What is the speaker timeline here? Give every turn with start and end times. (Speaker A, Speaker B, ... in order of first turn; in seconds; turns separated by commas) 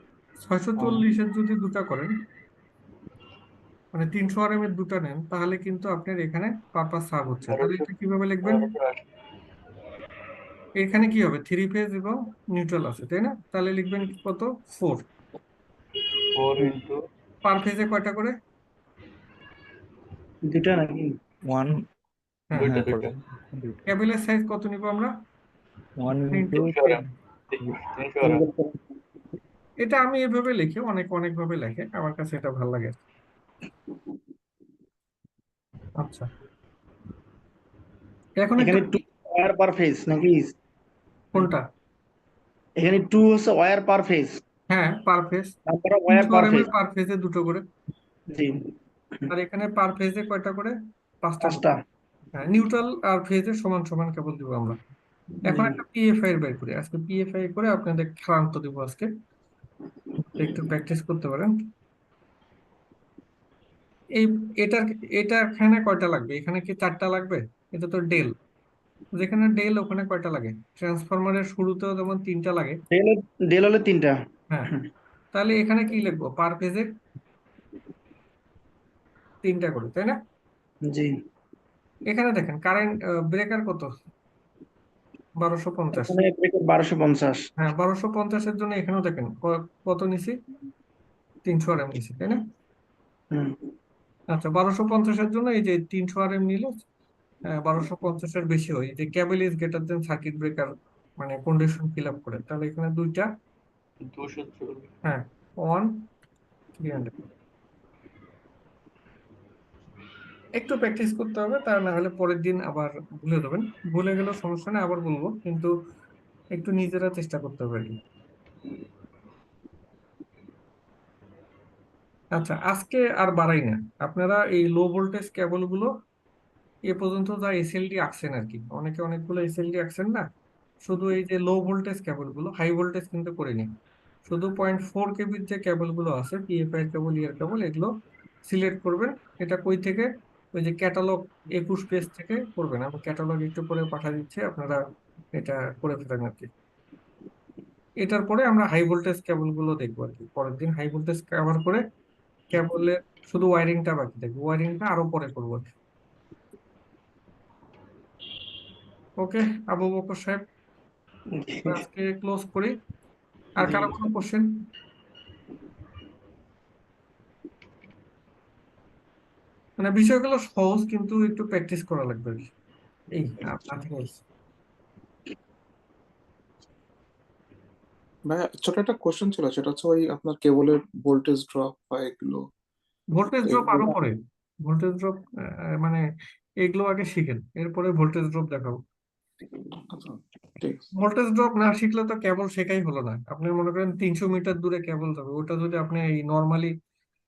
Speaker A: 0.5-2.1, Speaker B: 0.8-1.1, Speaker A: 3.9-8.7, Speaker B: 7.4-7.9, Speaker B: 8.4-9.0, Speaker A: 10.8-15.0, Speaker B: 16.4-17.0, Speaker A: 17.4-18.3, Speaker C: 20.5-21.1, Speaker D: 21.5-21.8, Speaker B: 22.6-23.1, Speaker D: 22.6-23.8, Speaker A: 23.9-25.1, Speaker D: 26.0-26.7, Speaker A: 26.3-27.1, Speaker B: 26.5-28.4, Speaker C: 28.3-28.8, Speaker A: 29.8-33.0, Speaker A: 36.0-36.3, Speaker A: 38.4-38.9, Speaker C: 38.6-40.5, Speaker A: 41.3-41.6, Speaker C: 42.8-44.4, Speaker A: 44.7-45.5, Speaker C: 45.7-46.7, Speaker A: 46.1-47.6, Speaker A: 49.3-50.7, Speaker A: 51.3-51.6, Speaker C: 51.4-51.8, Speaker A: 52.4-54.8, Speaker A: 55.5-59.1, Speaker C: 55.5-55.8, Speaker A: 60.4-61.5, Speaker A: 64.2-68.3, Speaker A: 69.2-72.8, Speaker C: 72.9-74.2, Speaker A: 75.3-76.9, Speaker A: 79.4-80.2, Speaker A: 82.1-83.9, Speaker A: 85.4-86.2, Speaker C: 86.0-87.4, Speaker A: 87.6-90.3, Speaker A: 91.5-92.4, Speaker A: 94.3-96.7, Speaker A: 97.6-100.7, Speaker A: 101.2-103.3, Speaker B: 104.0-104.9, Speaker A: 105.0-105.9, Speaker A: 106.8-107.1, Speaker A: 110.6-115.7, Speaker A: 116.6-118.0, Speaker A: 122.4-125.9, Speaker A: 126.9-130.2, Speaker A: 130.9-133.7, Speaker A: 134.3-137.9, Speaker A: 138.5-144.8, Speaker A: 145.4-146.5, Speaker A: 148.0-151.8, Speaker A: 152.5-155.6, Speaker A: 159.2-160.4, Speaker C: 161.4-161.8, Speaker A: 161.7-162.7, Speaker A: 163.6-164.5, Speaker A: 169.8-172.5, Speaker A: 173.2-174.2, Speaker E: 178.3-182.4, Speaker A: 183.2-184.2, Speaker E: 183.4-183.9, Speaker A: 184.7-185.2, Speaker A: 186.6-188.8, Speaker E: 189.9-190.8, Speaker A: 191.0-196.7